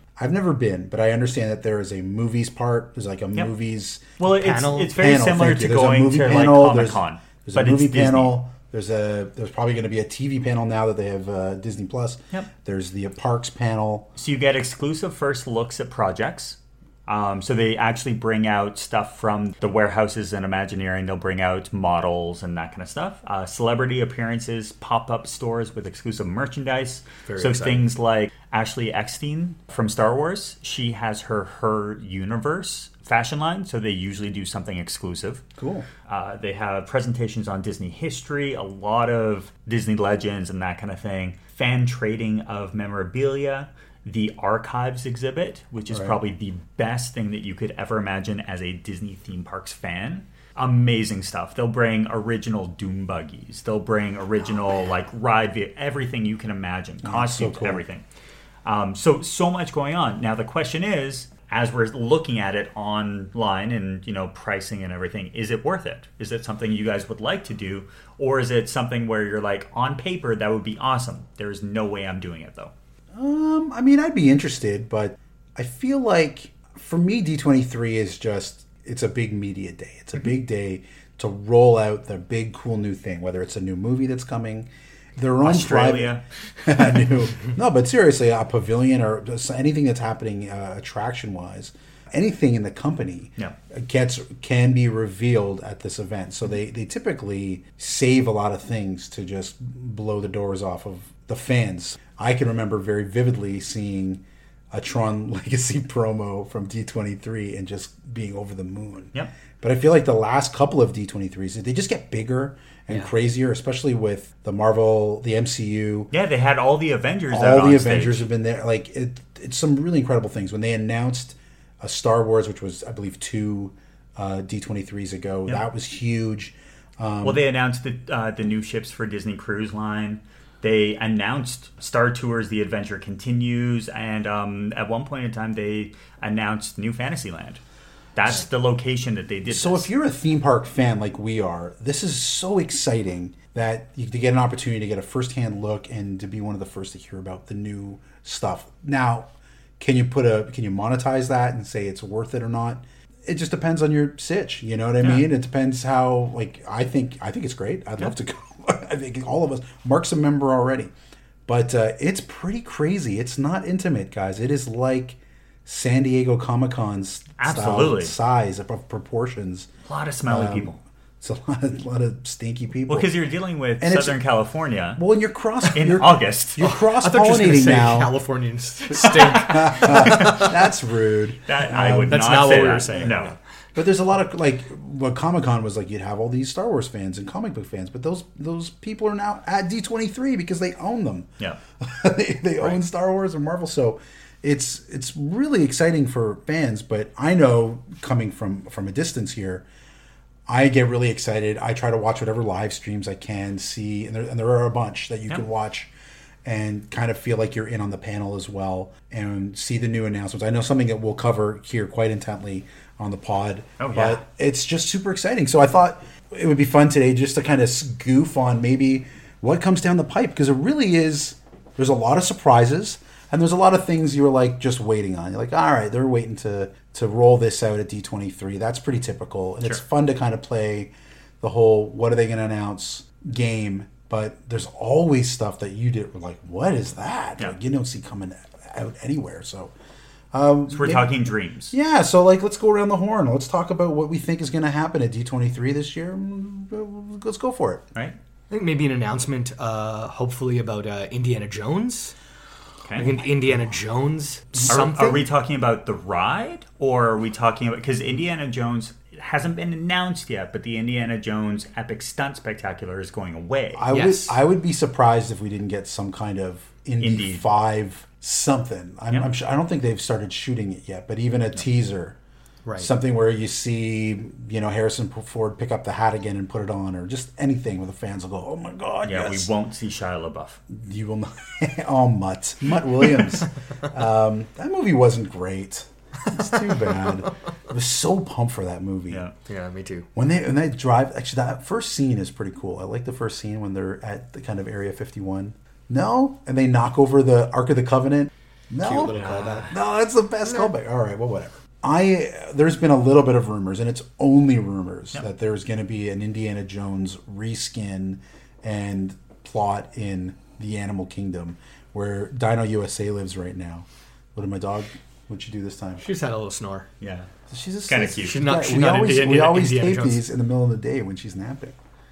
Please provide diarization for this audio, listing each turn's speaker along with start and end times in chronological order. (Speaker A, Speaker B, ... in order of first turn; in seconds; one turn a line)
Speaker A: 0.2-4.1
Speaker B: 4.2-8.4
Speaker C: 4.2-4.9
Speaker A: 4.8-14.1
Speaker B: 14.2-35.4
Speaker C: 27.2-27.9
Speaker A: 35.6-35.9
Speaker B: 36.0-58.0
Speaker A: 45.9-46.2
Speaker A: 57.0-57.8
Speaker B: 58.6-72.7
Speaker A: 73.1-116.1
Speaker B: 85.4-86.2
Speaker B: 116.1-118.2
Speaker A: 117.3-127.4
Speaker B: 127.2-137.6
Speaker B: 138.2-139.9
Speaker A: 139.4-160.9
Speaker B: 155.0-155.3
Speaker A: 161.5-169.7
Speaker B: 167.4-168.1
Speaker B: 169.8-170.8
Speaker A: 170.2-173.1
Speaker B: 172.9-175.0
Speaker A: 173.8-174.2
Speaker A: 174.9-178.2
Speaker B: 175.7-176.6
Speaker C: 176.6-180.6
Speaker A: 178.9-182.9
Speaker B: 181.4-183.3
Speaker C: 181.8-183.3
Speaker A: 183.7-199.6
Speaker A: 200.5-205.9
Speaker A: 206.4-239.7
Speaker B: 213.8-214.2
Speaker A: 240.3-247.8
Speaker B: 240.7-241.7
Speaker C: 248.5-252.1
Speaker B: 252.8-253.2
Speaker C: 253.0-255.2
Speaker B: 254.7-263.8
Speaker A: 263.7-272.1
Speaker C: 263.9-264.4
Speaker B: 267.0-267.4
Speaker C: 272.6-272.9
Speaker A: 272.8-279.5
Speaker B: 279.0-280.6
Speaker A: 280.7-289.2
Speaker C: 289.4-290.1
Speaker A: 290.1-316.0
Speaker C: 298.8-299.8
Speaker C: 316.0-316.9
Speaker B: 317.0-317.3
Speaker A: 317.5-321.8
Speaker B: 317.9-318.4
Speaker C: 318.2-320.2